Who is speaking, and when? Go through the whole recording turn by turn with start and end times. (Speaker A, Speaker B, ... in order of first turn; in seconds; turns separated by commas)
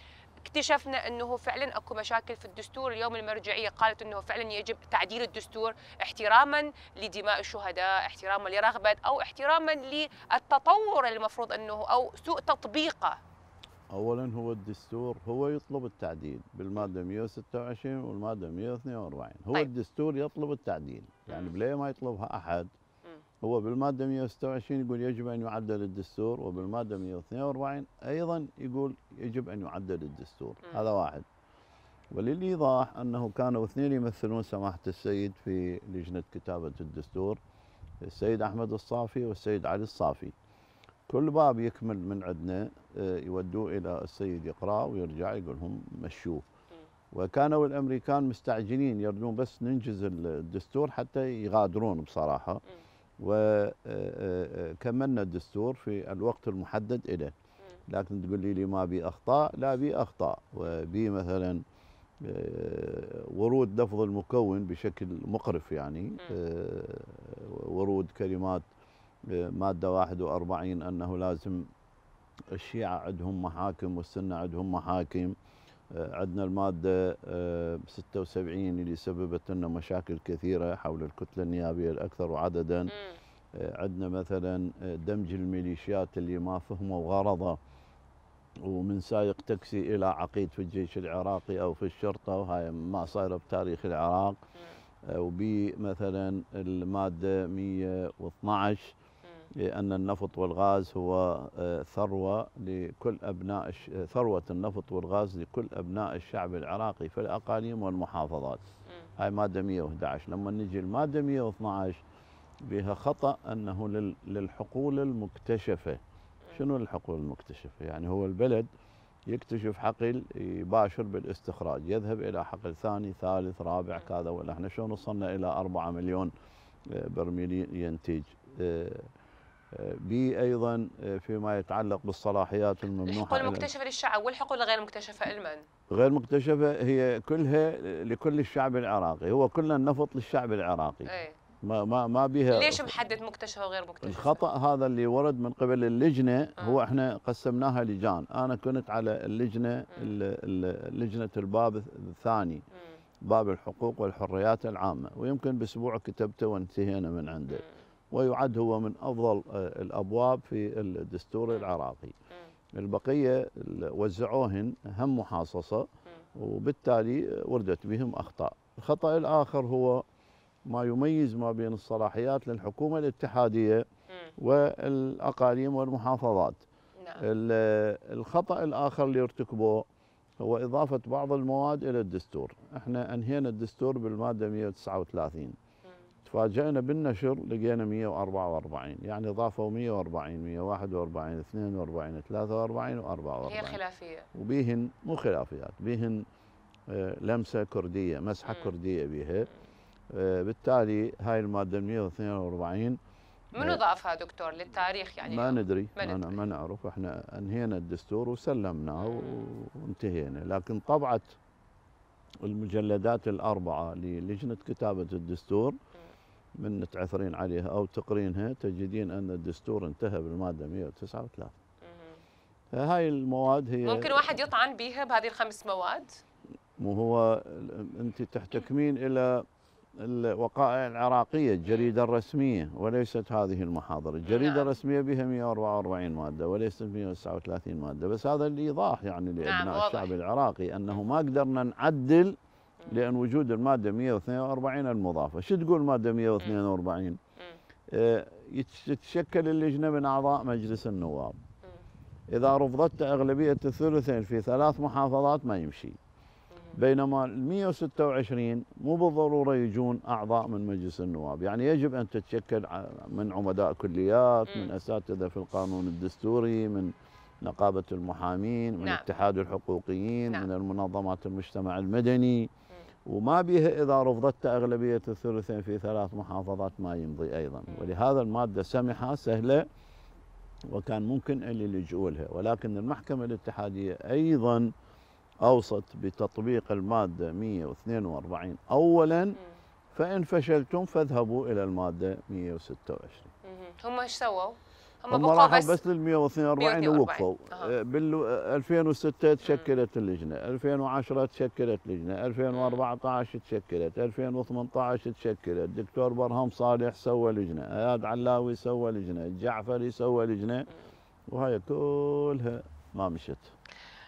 Speaker A: 0.4-13.2, Speaker B: 13.9-22.7, Speaker A: 21.3-21.5, Speaker B: 23.4-31.3, Speaker A: 30.6-30.9, Speaker B: 32.1-37.4, Speaker B: 38.0-40.3, Speaker B: 41.1-46.4, Speaker B: 47.1-52.6, Speaker B: 53.2-57.3, Speaker B: 57.9-61.6, Speaker B: 62.2-68.7, Speaker B: 69.3-71.7, Speaker B: 72.5-75.3, Speaker B: 75.9-82.9, Speaker A: 82.9-83.2, Speaker B: 83.5-87.6, Speaker B: 88.6-94.4, Speaker B: 95.1-98.9, Speaker B: 99.6-108.6, Speaker B: 109.2-112.0, Speaker B: 112.7-116.0, Speaker B: 116.5-118.7, Speaker B: 119.3-126.3, Speaker B: 126.9-129.1, Speaker B: 129.7-133.7, Speaker A: 133.1-135.6, Speaker B: 135.9-141.1, Speaker A: 141.1-141.4, Speaker B: 141.6-142.9, Speaker A: 142.5-144.4, Speaker B: 144.0-152.6, Speaker A: 146.6-146.8, Speaker B: 153.3-162.2, Speaker B: 162.7-170.0, Speaker B: 170.7-173.8, Speaker B: 174.4-176.6, Speaker A: 177.0-177.2, Speaker B: 177.2-179.8, Speaker B: 180.4-185.6, Speaker B: 186.3-193.8, Speaker A: 193.4-194.3, Speaker B: 194.3-196.2, Speaker B: 196.9-199.5, Speaker A: 198.5-198.7, Speaker B: 200.1-203.0, Speaker A: 203.6-206.4, Speaker B: 205.2-211.4, Speaker A: 209.0-209.5, Speaker B: 212.4-215.8, Speaker B: 216.6-221.5, Speaker A: 221.8-222.2, Speaker B: 222.7-224.4, Speaker A: 223.8-226.1, Speaker B: 226.8-229.4, Speaker B: 230.0-242.4, Speaker A: 234.3-234.7, Speaker A: 239.4-240.1, Speaker A: 242.8-243.1, Speaker B: 242.9-247.2, Speaker B: 247.9-251.3, Speaker B: 252.3-256.0, Speaker A: 256.5-256.8, Speaker B: 256.8-272.5, Speaker B: 273.1-279.6, Speaker A: 277.7-277.9, Speaker B: 280.7-284.7, Speaker B: 285.4-289.4, Speaker B: 289.9-293.3, Speaker A: 293.4-295.8, Speaker B: 295.1-310.7, Speaker A: 296.6-297.8, Speaker A: 299.4-299.8, Speaker A: 302.5-302.8, Speaker B: 311.3-313.5